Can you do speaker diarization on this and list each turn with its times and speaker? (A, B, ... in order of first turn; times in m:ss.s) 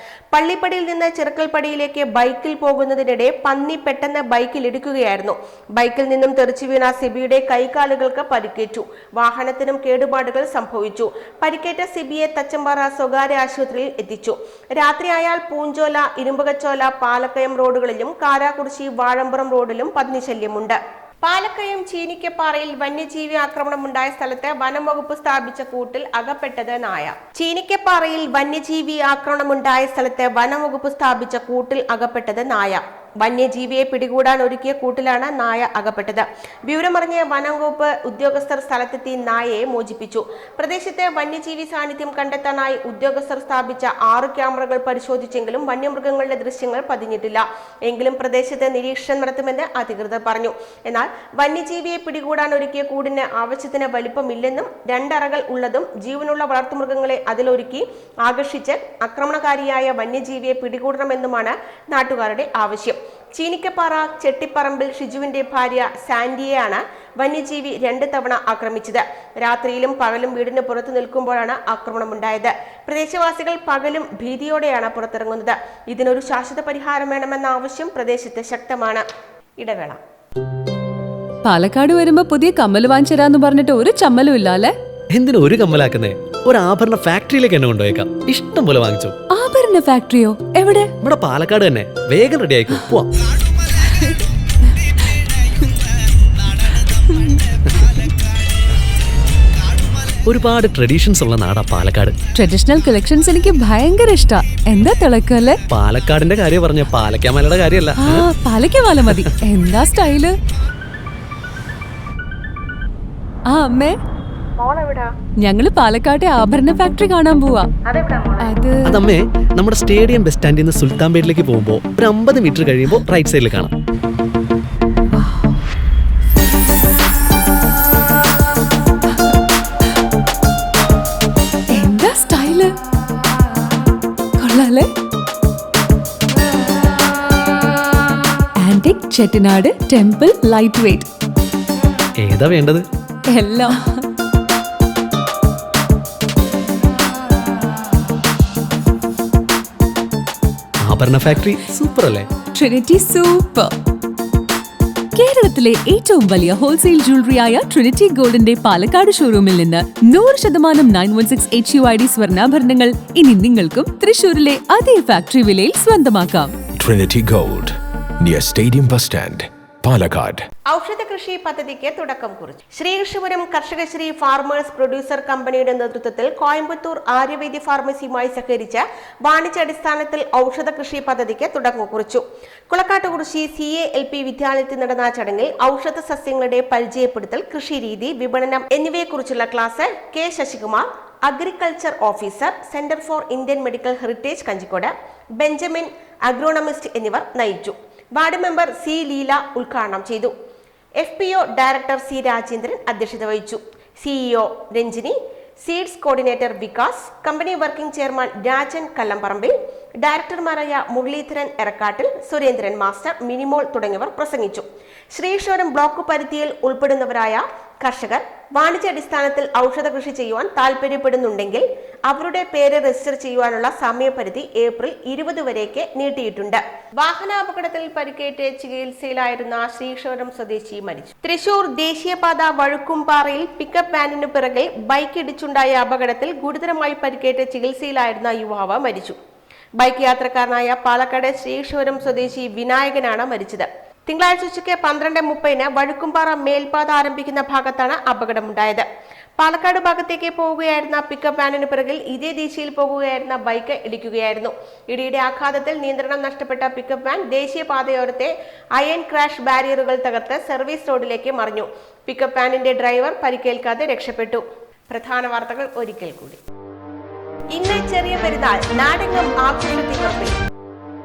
0:00.3-1:19.0 A
1:19.6-1:20.0 A
1:21.4-1:24.7 B
1:25.1-1:29.1 C
1:29.3-1:30.9 B
1:31.0-1:33.1 C
1:37.1-1:37.4 B
1:40.2-1:42.2 C
1:42.3-1:45.6 B
1:45.7-1:48.2 C
1:48.0-1:50.3 B
1:53.5-1:54.0 B
1:54.6-1:55.1 A
1:55.4-1:57.7 B
1:57.9-1:58.4 A
1:58.4-1:58.8 B
1:58.8-2:03.7 C
2:05.1-2:05.5 B
2:11.7-2:12.7 B
2:14.4-2:14.9 B
2:18.6-2:21.1 B
2:22.2-2:22.8 C
2:23.3-2:24.0 B
2:30.8-2:32.3 C
2:32.5-2:33.7 B
2:35.2-2:46.5 B
2:46.8-2:50.4 D
2:50.7-3:20.3 A
3:21.0-3:59.2 A
3:59.8-4:08.8 A
4:09.4-4:26.4 A
4:27.5-4:30.4 A